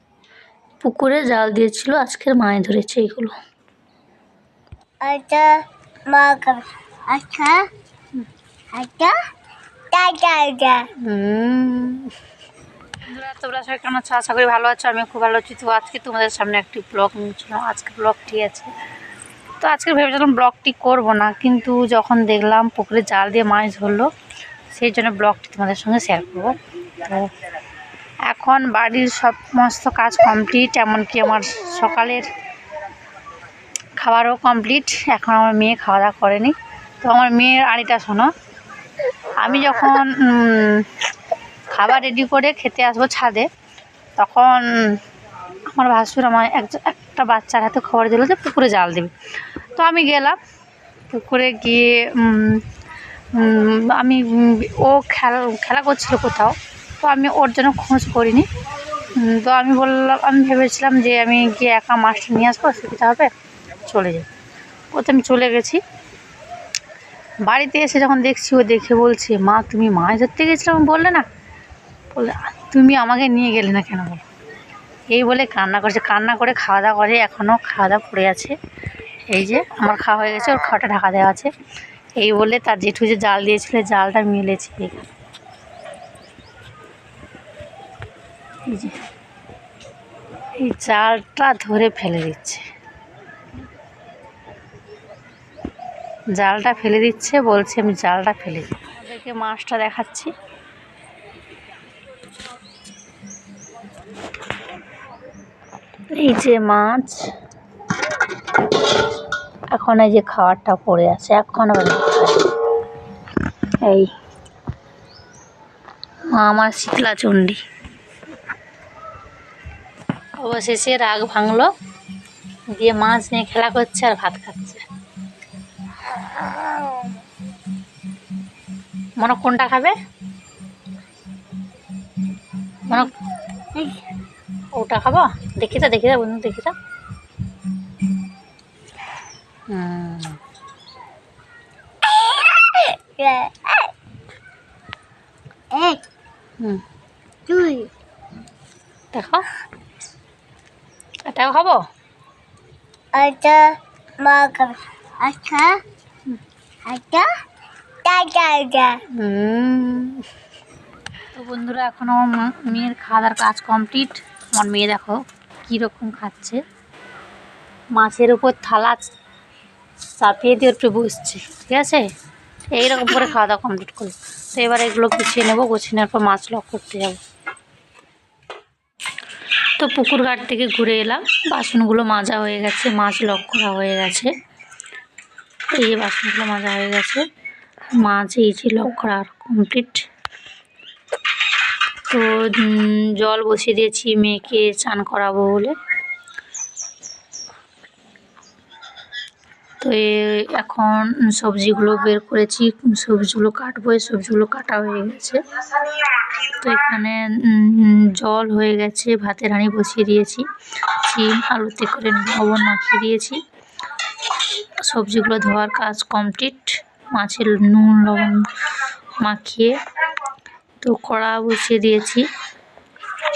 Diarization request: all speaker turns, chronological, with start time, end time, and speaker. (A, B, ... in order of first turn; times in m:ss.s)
0:00.8-0:03.4 A
0:05.0-0:07.7 B
0:08.7-0:09.2 B
0:09.9-0:10.9 B
0:11.0-0:12.1 A
0:13.0-0:18.7 A
0:19.6-0:24.1 A
0:24.7-0:27.3 A
0:28.3-0:32.3 A
0:34.0-0:38.3 A
0:39.4-0:41.0 A
0:41.7-0:43.5 A
0:44.2-0:45.0 A
0:45.7-0:50.4 A
0:51.1-0:52.6 A
0:53.4-0:58.5 A
0:59.2-1:03.3 A
1:03.9-1:04.3 A
1:04.9-1:05.8 A
1:07.5-1:11.3 A
1:12.1-1:14.2 A
1:15.1-1:18.6 A
1:19.3-1:21.5 A
1:22.2-1:25.1 A
1:28.7-1:29.0 A
1:30.6-1:32.6 A
1:36.4-1:40.3 A
1:46.1-1:47.3 A
1:49.7-1:52.5 A
1:53.8-1:54.1 A
1:56.3-1:57.6 A
2:00.4-2:01.7 A
2:02.8-2:04.8 A
2:09.2-2:09.9 A
2:12.9-2:13.1 A
2:13.8-2:14.0 B
2:14.8-2:16.8 A
2:19.7-2:20.4 A
2:22.0-2:23.9 B
2:25.7-2:26.0 B
2:27.5-2:27.9 B
2:29.1-2:29.4 A
2:31.3-2:31.8 A
2:33.1-2:35.8 B
2:36.9-2:37.3 B
2:38.0-2:39.0 B
2:39.2-2:40.2 A
2:41.3-2:46.6 A
2:48.0-2:49.1 A
2:50.2-2:52.0 A
2:52.7-2:57.2 A
2:59.8-3:04.3 A
3:05.7-3:07.2 A
3:07.9-3:10.0 A
3:12.1-3:15.8 A
3:19.8-3:25.4 A
3:26.4-3:30.5 A
3:31.0-3:33.4 A
3:34.8-3:38.4 A
3:39.2-3:39.7 A
3:40.8-3:42.3 A